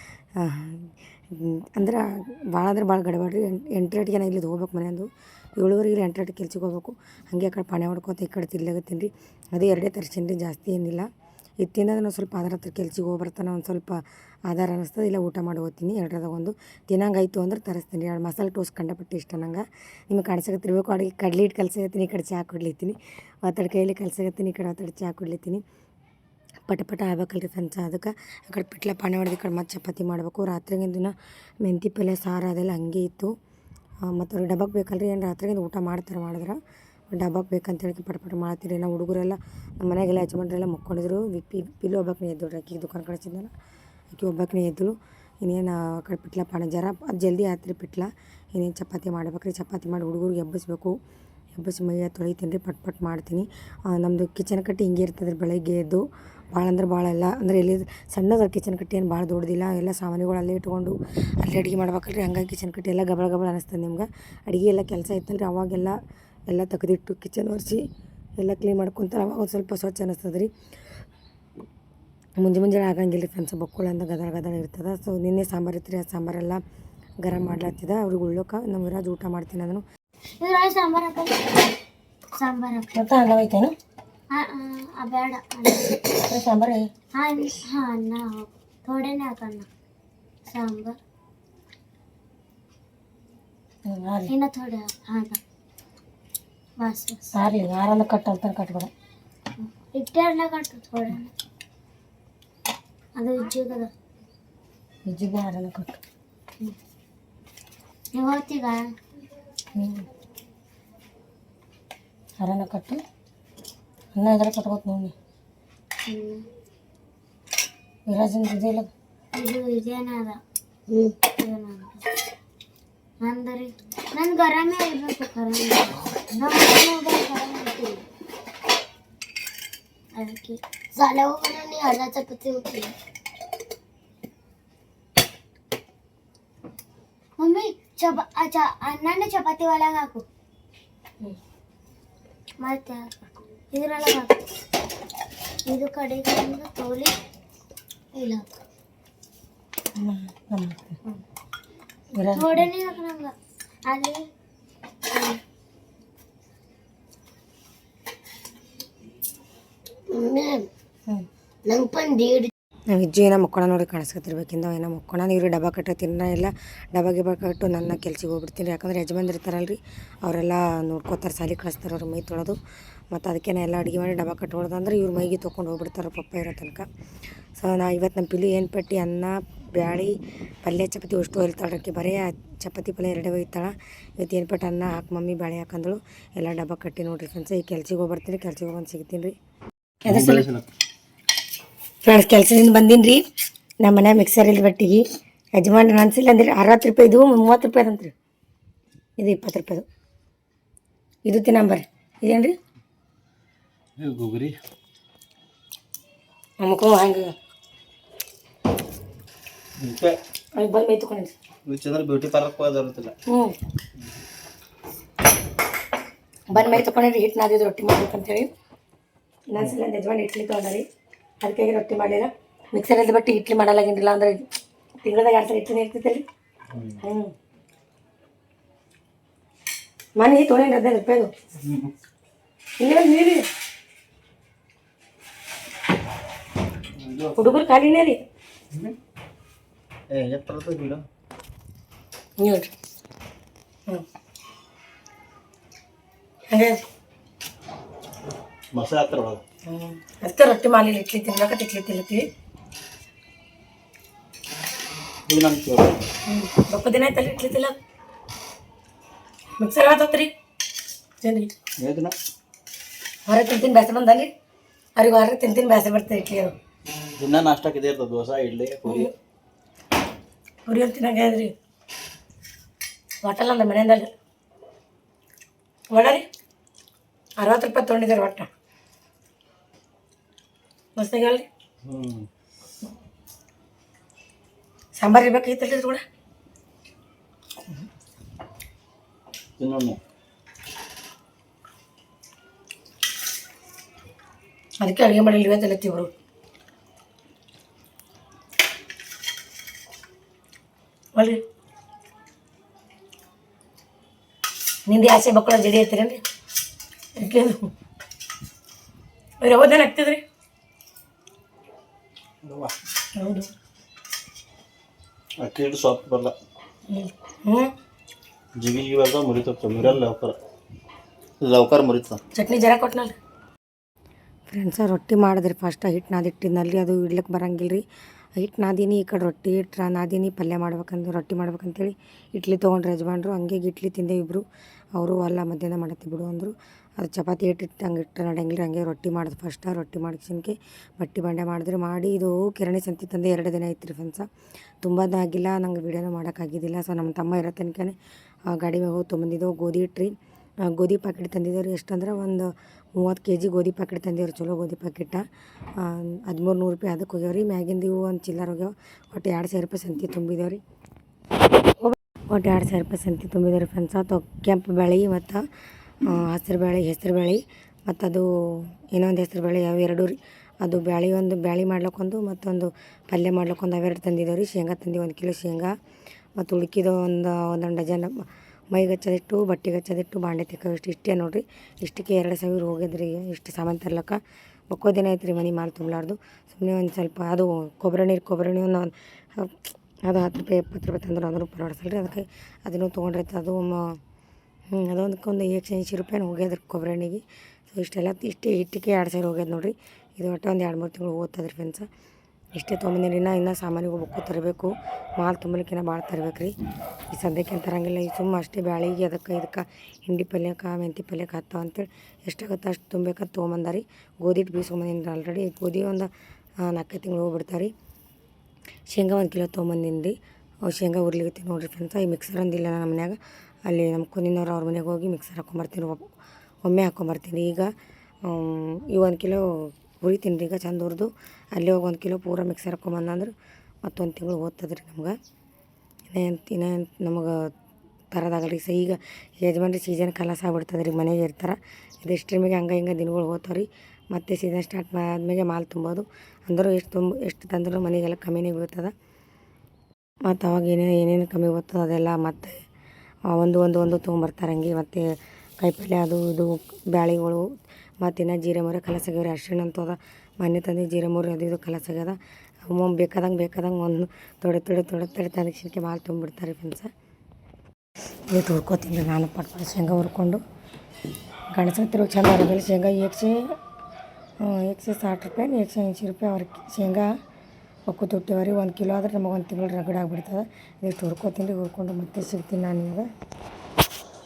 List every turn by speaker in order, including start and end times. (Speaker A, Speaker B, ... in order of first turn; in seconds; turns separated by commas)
Speaker A: 0.4-11.1, Speaker A: 11.6-25.6, Speaker A: 26.7-33.3, Speaker A: 34.1-36.6, Speaker A: 37.1-43.5, Speaker A: 44.1-51.0, Speaker A: 51.6-66.0, Speaker A: 66.5-67.8, Speaker A: 68.4-70.5, Speaker A: 72.4-76.6, Speaker A: 77.2-79.8, Speaker B: 80.4-81.7, Speaker B: 82.4-83.0, Speaker A: 82.9-83.7, Speaker B: 84.3-86.0, Speaker A: 86.1-86.9, Speaker B: 87.2-89.7, Speaker B: 90.5-91.0, Speaker A: 93.9-94.3, Speaker B: 94.3-95.4, Speaker B: 96.8-97.4, Speaker A: 97.3-98.9, Speaker B: 99.6-101.3, Speaker B: 103.2-103.9, Speaker A: 105.1-106.0, Speaker B: 108.1-108.8, Speaker A: 109.8-110.1, Speaker A: 112.4-113.0, Speaker A: 114.2-115.1, Speaker B: 116.0-116.5, Speaker A: 118.1-118.9, Speaker B: 119.3-122.1, Speaker B: 123.2-128.0, Speaker B: 130.1-132.9, Speaker B: 137.4-140.3, Speaker B: 142.6-143.2, Speaker B: 143.7-144.4, Speaker B: 145.7-147.2, Speaker B: 148.1-148.5, Speaker A: 150.0-151.0, Speaker A: 152.2-152.7, Speaker B: 152.3-153.3, Speaker B: 153.9-154.2, Speaker B: 155.1-155.4, Speaker B: 160.1-160.7, Speaker B: 161.7-162.5, Speaker A: 162.9-172.6, Speaker A: 173.1-176.9, Speaker A: 177.6-189.3, Speaker C: 190.0-190.7, Speaker A: 190.1-190.4, Speaker A: 192.0-193.2, Speaker A: 193.8-195.1, Speaker A: 195.6-198.1, Speaker A: 199.2-199.9, Speaker A: 201.3-202.6, Speaker C: 204.0-204.6, Speaker A: 206.6-207.3, Speaker C: 209.8-210.2, Speaker A: 210.6-211.3, Speaker C: 211.7-213.1, Speaker A: 213.3-213.6, Speaker A: 216.5-218.5, Speaker C: 216.6-216.8, Speaker A: 219.5-220.8, Speaker A: 221.4-224.4, Speaker A: 225.0-226.2, Speaker C: 226.7-227.0, Speaker A: 227.0-227.3, Speaker A: 230.2-231.3, Speaker C: 231.6-231.9, Speaker A: 232.8-233.4, Speaker C: 237.0-237.6, Speaker A: 237.4-238.2, Speaker C: 240.1-241.0, Speaker A: 242.4-242.7, Speaker A: 246.5-246.8, Speaker C: 248.7-249.4, Speaker A: 249.7-252.2, Speaker C: 255.3-256.0, Speaker A: 256.3-257.8, Speaker A: 259.6-260.3, Speaker A: 261.2-261.5, Speaker C: 261.8-262.1, Speaker A: 263.3-264.3, Speaker A: 265.0-266.5, Speaker C: 267.2-269.1, Speaker A: 270.7-271.5, Speaker A: 273.2-274.1, Speaker A: 275.9-276.2, Speaker A: 277.4-278.5, Speaker A: 281.0-281.5, Speaker C: 281.9-282.3, Speaker A: 285.0-286.0, Speaker C: 289.6-290.0, Speaker A: 294.8-296.1, Speaker A: 301.2-301.4, Speaker A: 304.9-306.2, Speaker A: 307.2-307.7, Speaker A: 309.4-310.2, Speaker C: 312.4-312.7, Speaker A: 313.2-313.5, Speaker C: 315.4-316.3, Speaker A: 316.9-317.7, Speaker C: 318.6-320.4, Speaker C: 321.4-322.2, Speaker A: 322.3-323.1, Speaker A: 324.5-327.8, Speaker A: 328.4-334.4, Speaker A: 335.0-344.3, Speaker A: 344.8-348.0, Speaker A: 348.5-355.2, Speaker A: 355.8-360.6, Speaker A: 361.8-365.4, Speaker A: 366.0-375.7, Speaker A: 376.4-394.0, Speaker A: 394.7-401.9, Speaker A: 402.6-406.5, Speaker A: 407.1-416.1, Speaker A: 416.6-417.7, Speaker A: 418.9-420.1, Speaker A: 420.7-426.1, Speaker A: 426.6-427.7, Speaker A: 428.2-435.2, Speaker A: 436.1-437.5, Speaker A: 438.1-448.9, Speaker A: 450.3-452.6, Speaker A: 453.3-466.9, Speaker A: 468.3-470.4, Speaker A: 471.5-473.4, Speaker A: 474.4-477.1, Speaker A: 477.9-483.1